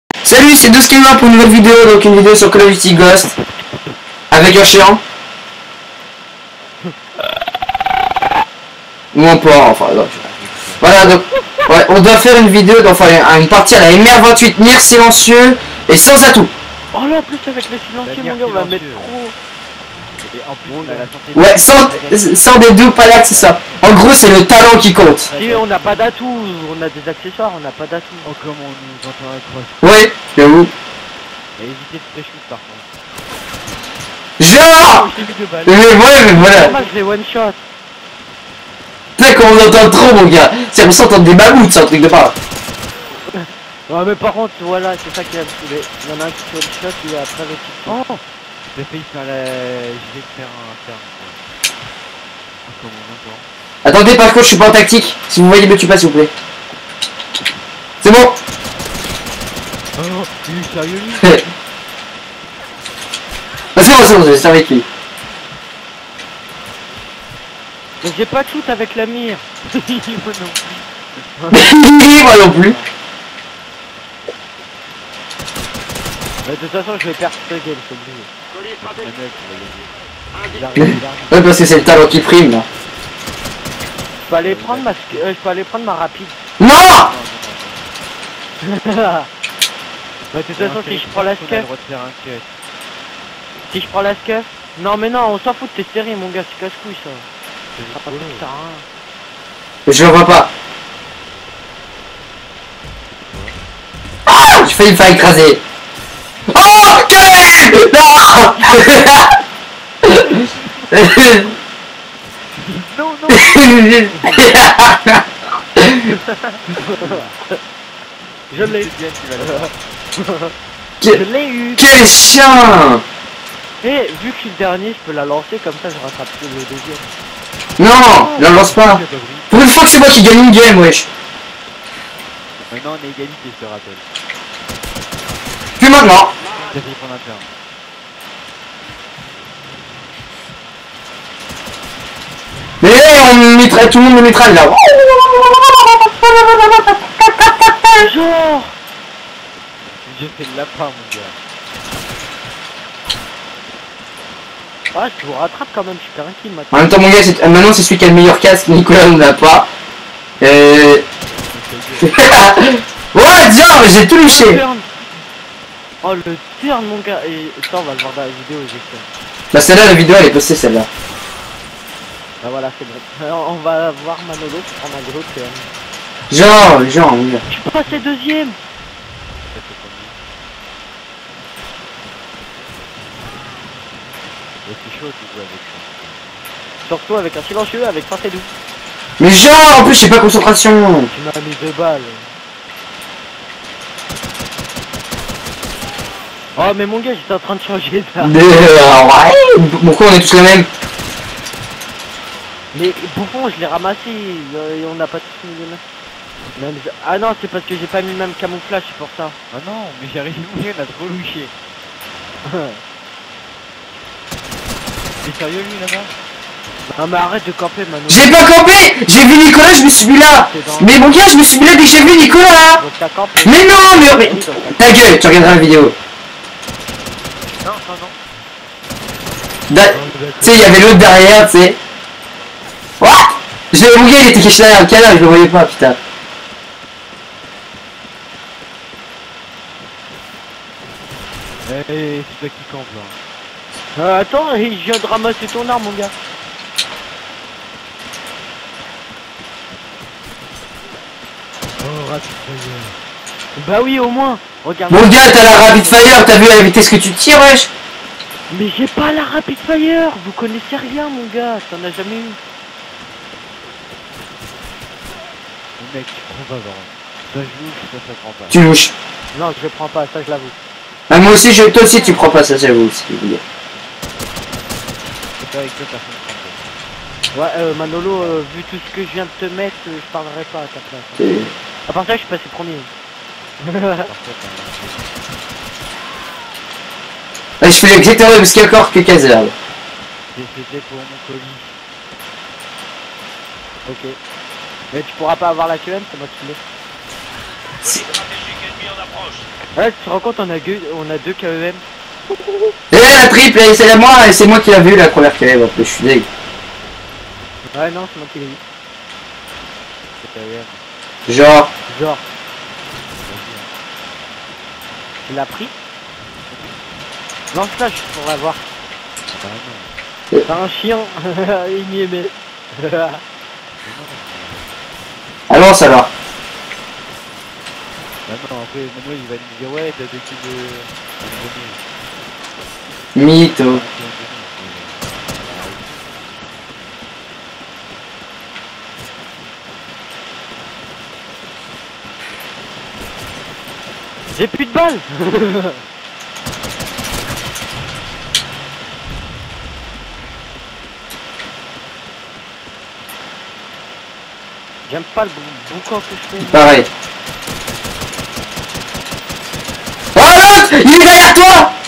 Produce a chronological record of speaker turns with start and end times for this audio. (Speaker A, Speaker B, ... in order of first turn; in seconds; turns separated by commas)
Speaker A: 0.2-3.3, Speaker A: 4.3-5.0, Speaker A: 9.1-10.2, Speaker B: 9.5-11.1, Speaker A: 10.8-16.5, Speaker C: 16.9-19.3, Speaker B: 18.0-19.2, Speaker B: 20.2-24.2, Speaker C: 20.7-21.1, Speaker A: 21.3-25.3, Speaker B: 24.8-26.6, Speaker C: 25.3-28.3, Speaker B: 28.2-29.9, Speaker A: 29.8-30.7, Speaker B: 31.6-32.9, Speaker A: 34.4-35.1, Speaker C: 34.8-37.6, Speaker A: 35.7-36.7, Speaker B: 36.2-36.9, Speaker A: 39.2-42.3, Speaker C: 43.2-48.0, Speaker B: 47.9-48.2, Speaker B: 48.7-51.4, Speaker B: 52.7-53.5, Speaker A: 53.8-56.3, Speaker A: 58.0-58.4, Speaker B: 60.0-61.4, Speaker A: 63.8-64.8, Speaker C: 68.0-69.5, Speaker B: 69.7-71.3, Speaker C: 71.4-71.7, Speaker A: 71.5-72.8, Speaker C: 76.4-78.3, Speaker B: 78.8-81.2, Speaker C: 80.6-81.2, Speaker A: 80.8-82.7, Speaker C: 84.3-86.4, Speaker B: 84.3-85.3, Speaker A: 86.6-87.1, Speaker B: 87.0-87.9, Speaker C: 88.6-89.3, Speaker C: 90.3-91.7, Speaker B: 90.5-92.5, Speaker C: 93.7-97.3, Speaker B: 97.7-98.4, Speaker C: 97.9-98.9, Speaker A: 99.9-100.5, Speaker B: 103.3-103.6, Speaker A: 104.3-105.6, Speaker A: 106.5-109.4, Speaker A: 110.0-111.5, Speaker B: 110.3-110.9, Speaker B: 112.6-114.4, Speaker A: 113.3-115.2, Speaker A: 115.8-116.1, Speaker C: 116.5-117.6, Speaker B: 116.8-117.3, Speaker C: 118.5-120.5, Speaker B: 118.5-119.8, Speaker C: 121.1-121.9, Speaker A: 121.8-123.0, Speaker C: 123.8-127.1, Speaker A: 127.8-131.1, Speaker B: 128.1-129.7, Speaker B: 132.7-134.0, Speaker A: 135.8-136.3, Speaker B: 136.4-137.5, Speaker A: 142.8-148.0, Speaker C: 147.9-148.8, Speaker B: 149.9-151.4, Speaker C: 154.9-156.9, Speaker A: 156.7-159.7, Speaker A: 160.4-161.0, Speaker B: 161.3-162.3, Speaker A: 162.0-164.6, Speaker C: 164.2-164.9, Speaker C: 166.0-169.1, Speaker A: 169.5-170.9, Speaker C: 172.4-175.7, Speaker A: 176.3-177.4, Speaker C: 177.5-178.6, Speaker B: 179.5-180.2, Speaker B: 184.7-186.2, Speaker C: 186.8-188.5, Speaker A: 189.2-191.1, Speaker C: 191.1-192.3, Speaker C: 196.5-198.3, Speaker A: 198.2-200.7, Speaker C: 202.7-205.8, Speaker C: 206.5-209.4, Speaker B: 209.5-211.5, Speaker C: 212.4-212.8, Speaker B: 215.2-216.1, Speaker C: 216.9-218.4, Speaker A: 218.1-222.8, Speaker C: 220.2-221.1, Speaker C: 222.8-225.1, Speaker A: 223.4-225.9, Speaker B: 227.6-228.1, Speaker A: 229.7-231.8, Speaker B: 229.9-231.1, Speaker A: 233.0-236.0, Speaker B: 241.7-243.2, Speaker C: 243.9-246.1, Speaker B: 251.8-252.9, Speaker C: 253.5-256.1, Speaker A: 254.9-257.7, Speaker C: 258.5-262.4, Speaker B: 265.8-268.6, Speaker A: 268.5-268.9, Speaker C: 269.3-270.6, Speaker A: 271.1-273.4, Speaker B: 275.4-276.7, Speaker C: 277.3-281.3, Speaker B: 277.7-278.4, Speaker A: 281.2-281.5, Speaker C: 281.9-282.9, Speaker C: 283.6-284.1, Speaker B: 284.0-285.1, Speaker A: 287.6-289.5, Speaker B: 290.3-291.8, Speaker C: 293.9-294.2, Speaker C: 294.9-296.6, Speaker C: 299.8-301.8, Speaker A: 302.9-306.3, Speaker C: 307.7-308.6, Speaker B: 310.2-310.8, Speaker A: 311.3-311.7, Speaker C: 311.9-312.2, Speaker B: 313.2-313.7, Speaker C: 315.2-315.7, Speaker C: 317.5-318.6, Speaker B: 319.3-320.0, Speaker C: 320.4-323.2, Speaker B: 323.8-324.8, Speaker A: 325.5-326.1, Speaker B: 328.2-331.8, Speaker A: 333.1-333.8, Speaker B: 333.7-336.0, Speaker C: 344.3-345.8, Speaker C: 354.9-356.8, Speaker A: 356.4-356.9, Speaker A: 360.1-361.7